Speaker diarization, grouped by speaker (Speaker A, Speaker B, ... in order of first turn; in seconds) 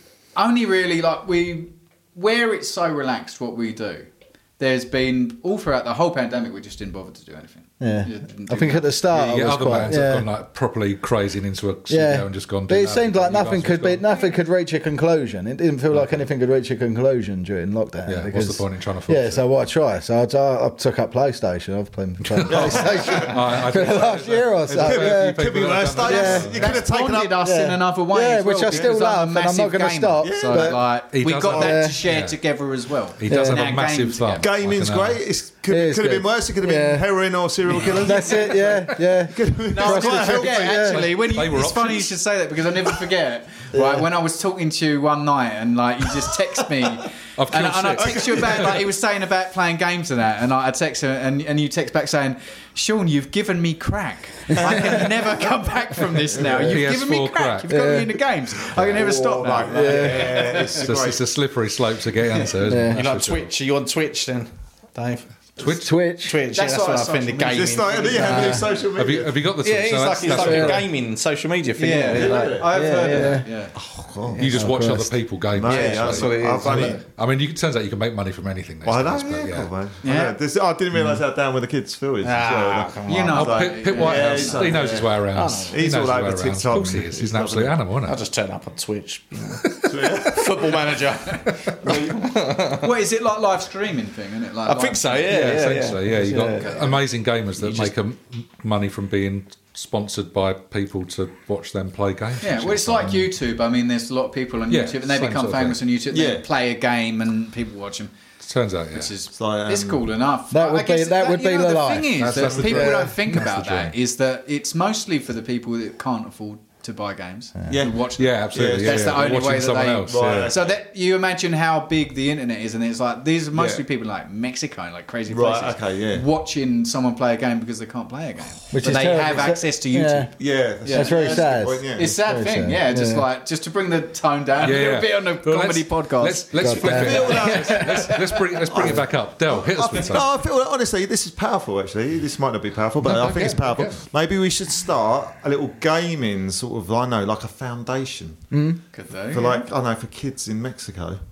Speaker A: 0.3-8.9, 26.1-34.5, 39.7-60.9, 66.5-68.8, 71.8-73.7, 80.0-80.4, 83.0-84.9, 92.8-95.7, 96.6-97.0, 102.4-108.1, 108.9-138.4, 148.9-149.6
Speaker B: 7.8-10.3, 11.9-26.6, 27.4-30.8, 31.5-32.0, 33.3-33.7, 35.7-37.1, 37.9-41.1, 43.7-44.1, 54.5-55.0, 56.4-56.9, 57.7-58.2, 59.7-60.3, 62.7-63.0, 65.6-66.4, 68.2-68.6, 70.5-70.7, 72.7-73.5, 74.4-75.2, 110.5-113.5, 128.7-130.3, 130.9-133.2, 136.6-137.6, 148.5-148.8
Speaker C: 9.1-14.0, 15.9-16.2, 18.1-19.4, 22.3-26.8, 31.1-32.4, 33.2-35.2, 38.1-38.9, 40.9-42.1, 47.4-48.8, 56.5-57.7, 58.8-59.0, 60.6-63.5, 65.6-65.9, 69.0-70.9, 74.4-79.7, 83.3-88.2, 89.6-90.2, 95.3-103.2, 104.7-105.8, 108.4-109.1, 112.2-113.9, 118.2-120.5, 134.6-140.3, 143.0-144.0
Speaker D: 22.5-23.6, 24.7-27.4, 30.2-30.8, 34.4-38.6, 39.3-41.0, 48.0-48.9, 54.6-55.0, 58.8-61.2, 67.5-69.5, 72.1-72.7, 73.8-74.6, 75.5-77.0, 78.8-87.8, 89.8-90.9, 91.8-92.4, 106.1-106.4, 109.3-110.1, 117.7-120.8, 123.5-123.8, 125.3-126.3, 130.4-132.1, 136.8-138.2, 138.7-148.5, 149.3-151.2
Speaker E: 62.9-65.5, 66.2-68.6, 69.6-73.4, 75.7-77.0, 82.2-83.5, 85.3-85.8, 88.0-92.9, 94.7-96.9, 97.6-97.9